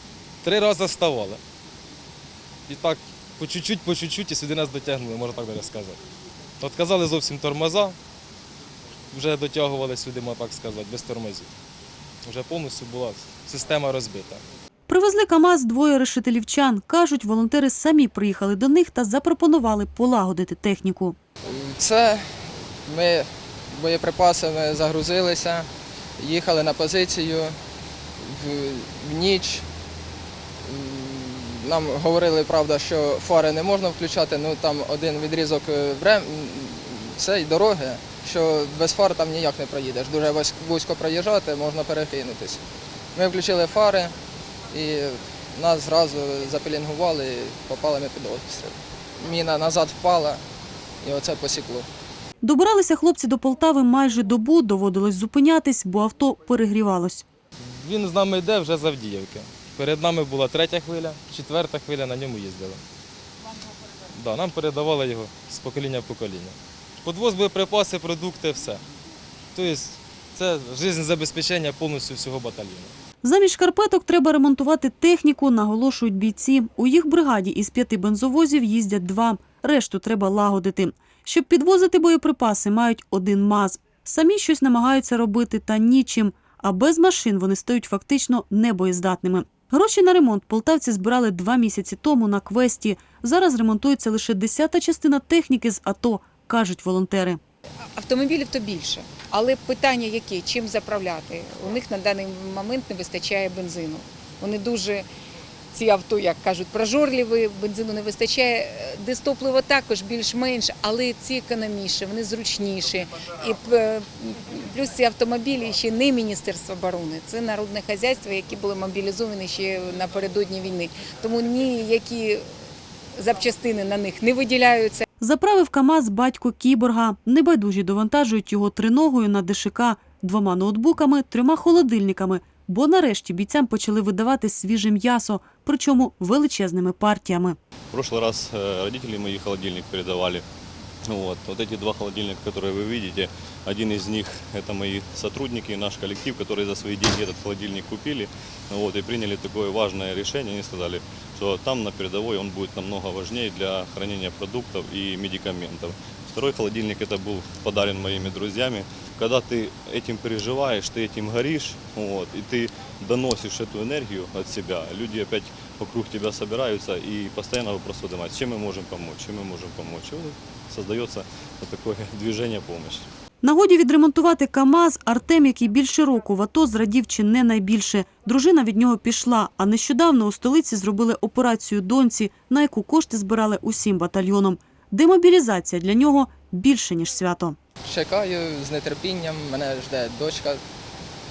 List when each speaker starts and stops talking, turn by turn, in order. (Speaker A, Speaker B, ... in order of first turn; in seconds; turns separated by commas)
Speaker A: 0.4-1.4, Speaker A: 2.7-6.0, Speaker A: 6.6-8.0, Speaker A: 9.1-11.5, Speaker A: 12.2-14.4, Speaker B: 14.9-21.2, Speaker C: 21.4-27.6, Speaker C: 28.2-29.7, Speaker C: 30.6-42.6, Speaker C: 43.1-44.1, Speaker C: 44.7-50.4, Speaker C: 51.0-51.9, Speaker B: 52.4-57.2, Speaker A: 57.6-62.8, Speaker A: 64.1-68.8, Speaker A: 69.5-72.9, Speaker B: 73.2-97.4, Speaker D: 97.9-105.1, Speaker D: 105.7-122.5, Speaker D: 123.1-125.0, Speaker B: 125.2-137.6, Speaker E: 137.9-140.4, Speaker E: 141.1-173.1, Speaker B: 173.4-187.6, Speaker C: 187.8-190.6